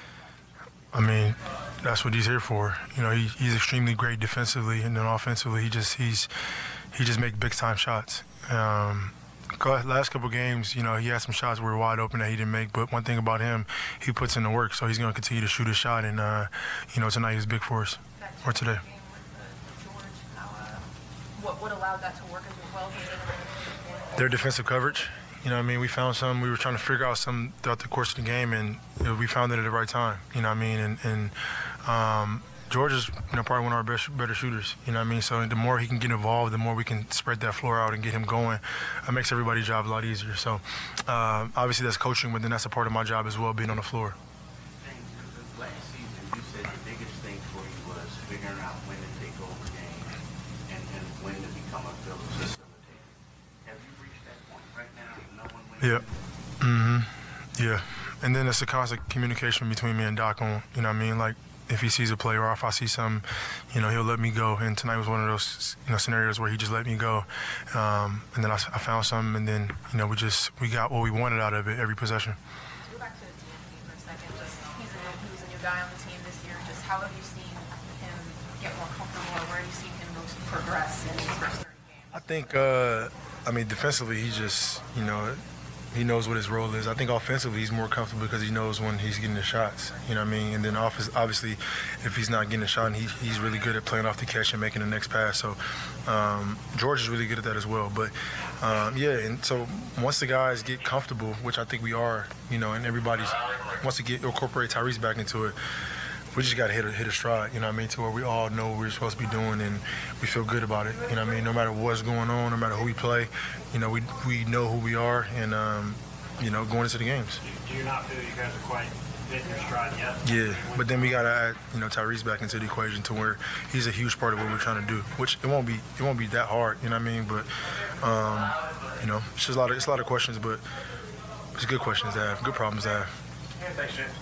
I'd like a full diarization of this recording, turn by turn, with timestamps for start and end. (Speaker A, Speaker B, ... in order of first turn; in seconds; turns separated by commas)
Speaker A: 0.9-6.3, Speaker A: 6.9-18.8, Speaker B: 18.2-24.4, Speaker A: 24.2-44.2, Speaker C: 44.8-56.2, Speaker A: 56.6-72.4, Speaker B: 72.8-82.3, Speaker A: 82.1-85.4, Speaker A: 85.9-105.6, Speaker A: 106.3-117.4, Speaker D: 117.4-121.0, Speaker A: 120.2-130.6, Speaker A: 131.6-133.1